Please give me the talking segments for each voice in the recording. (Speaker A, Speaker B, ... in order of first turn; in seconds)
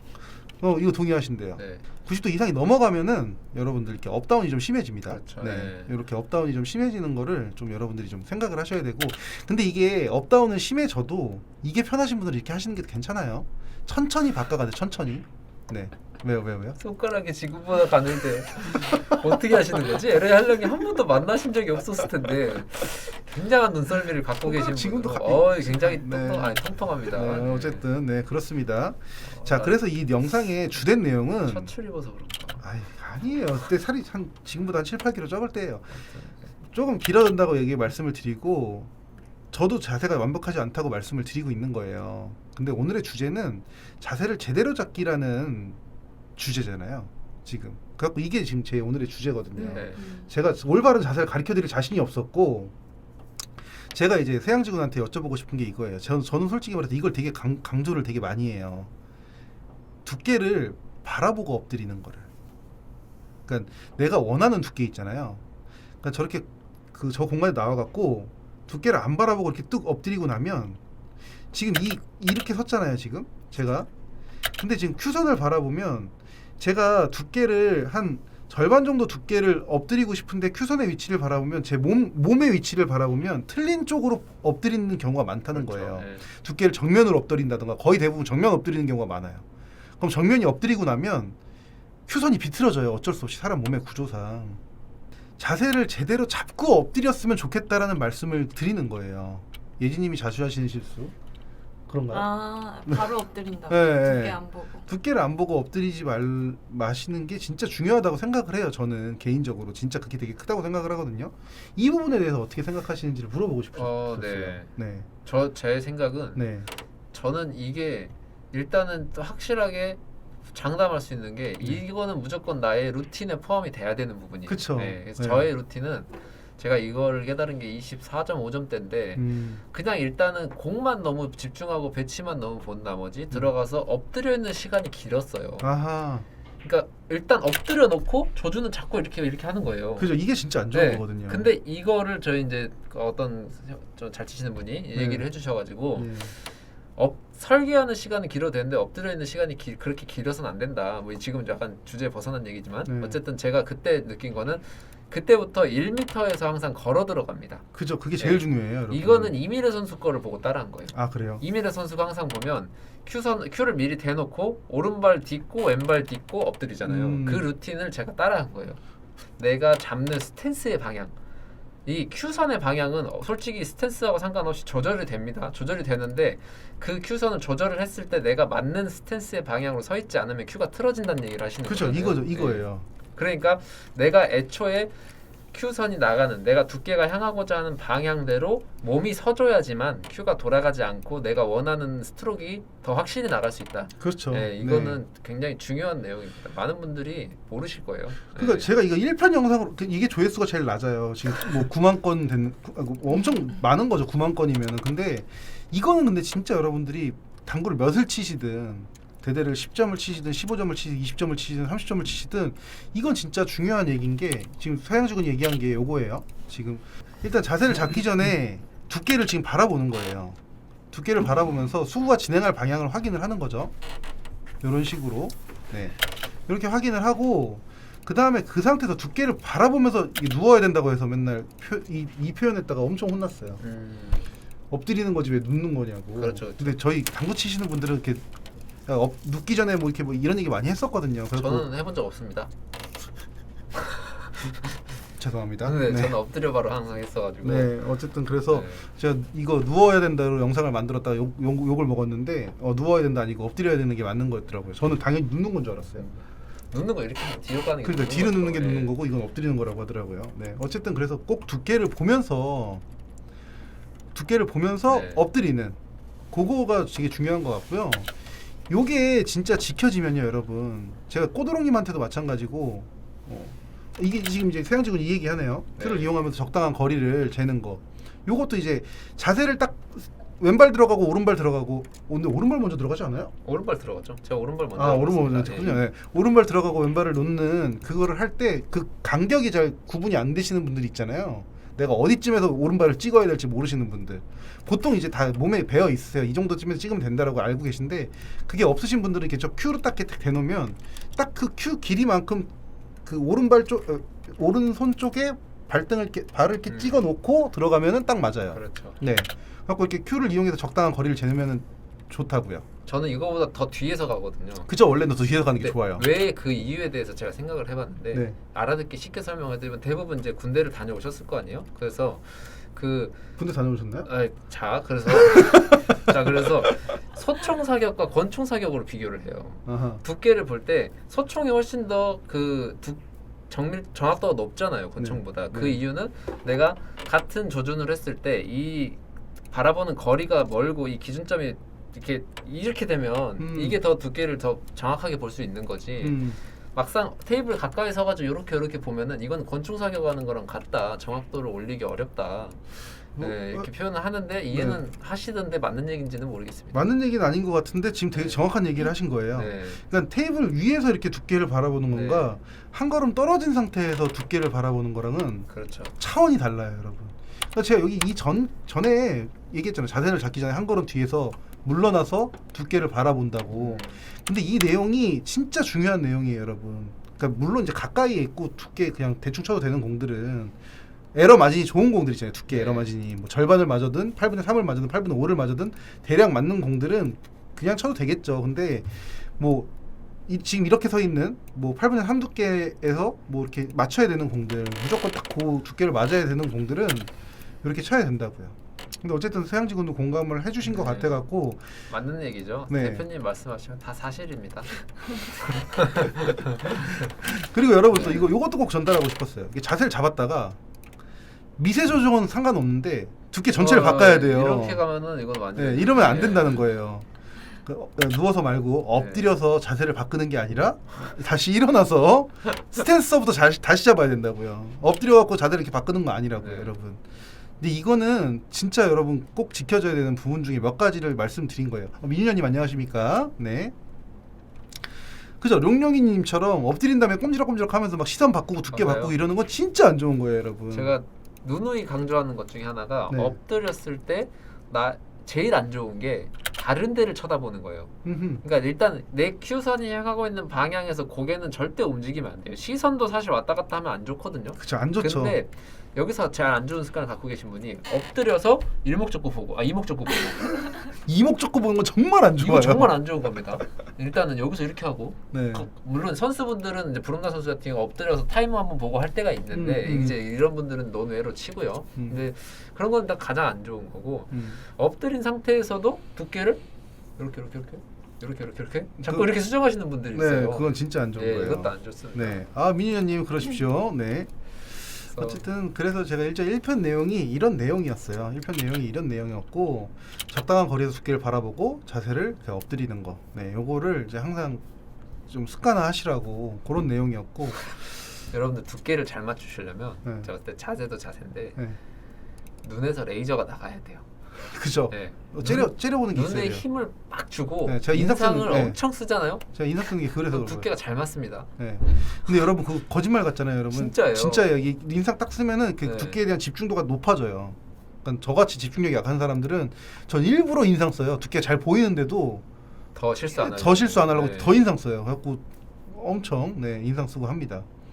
Speaker A: 0.6-16.8, 18.8-19.5, 24.4-31.7, 32.6-36.0, 36.7-38.9, 39.5-45.8, 46.4-52.7, 53.9-58.9, 60.0-62.3, 63.5-65.4, 66.0-70.8, 71.5-73.9, 74.6-89.5, 90.0-91.4, 92.1-94.6, 95.4-101.1, 101.9-102.3, 102.8-115.1, 116.3-116.7, 124.5-125.5, 129.2-129.6, 135.6-136.3, 140.0-141.5, 144.9-145.3, 145.9-146.3, 152.9-153.2, 157.7-159.4, 160.9-161.4, 166.8-167.5, 181.6-182.9, 194.0-195.0, 198.3-220.4, 220.9-223.7, 224.6-233.6, 234.7-238.2, 238.9-241.7, 245.2-246.2, 247.4-256.1, 257.8-262.8, 264.1-265.8, 266.3-268.1, 268.7-283.3, 284.8-302.5, 303.1-312.6, 314.7-316.1, 323.4-324.1, 325.3-326.0, 329.7-330.0, 335.0-335.8, 343.4-343.8, 346.0-346.4, 353.2-353.7, 354.5-354.8, 356.7-380.6, 381.1-389.7, 390.3-397.1, 397.6-401.7, 402.7-403.1, 405.9-410.6, 411.6-414.8, 415.6-417.1, 417.6-427.0, 427.6-433.7, 435.4-441.0, 443.1-443.4, 448.0-448.4, 454.6-455.4, 461.1-463.0, 465.3-465.7, 469.5-470.2, 474.3-474.6, 479.0-479.3, 480.1-494.6, 495.3-497.6, 504.4-506.6, 507.7-508.8, 509.5-510.7, 511.6-522.4, 523.3-527.7
Speaker B: 1.6-1.8, 5.1-5.9, 16.8-27.9, 29.2-29.8, 31.4-32.6, 36.0-36.5, 49.5-50.2, 85.5-86.3, 113.7-114.7, 115.2-116.5, 117.1-135.7, 136.6-140.1, 140.7-146.4, 147.0-157.6, 158.2-168.8, 169.4-171.2, 171.9-184.9, 185.5-198.7, 233.6-234.3, 236.2-236.8, 241.3-242.5, 245.6-247.8, 248.5-248.9, 256.0-259.0, 264.9-265.3, 275.8-276.1, 283.4-285.9, 306.7-307.1, 308.5-309.0, 312.9-314.7, 315.5-323.2, 324.0-339.0, 339.5-356.9, 358.1-358.4, 359.3-359.8, 361.9-362.3, 365.5-365.9, 373.5-374.0, 382.5-382.9, 400.6-401.2, 401.9-407.0, 407.9-408.3, 413.5-416.6, 418.9-419.3, 426.4-426.7, 438.7-439.2, 440.7-460.8, 462.4-476.6, 477.2-482.4, 485.1-485.4, 497.7-501.6, 502.6-504.1, 504.9-509.4, 510.1-511.5, 513.7-514.6, 515.8-516.2, 523.0-524.6
Speaker C: 102.1-104.8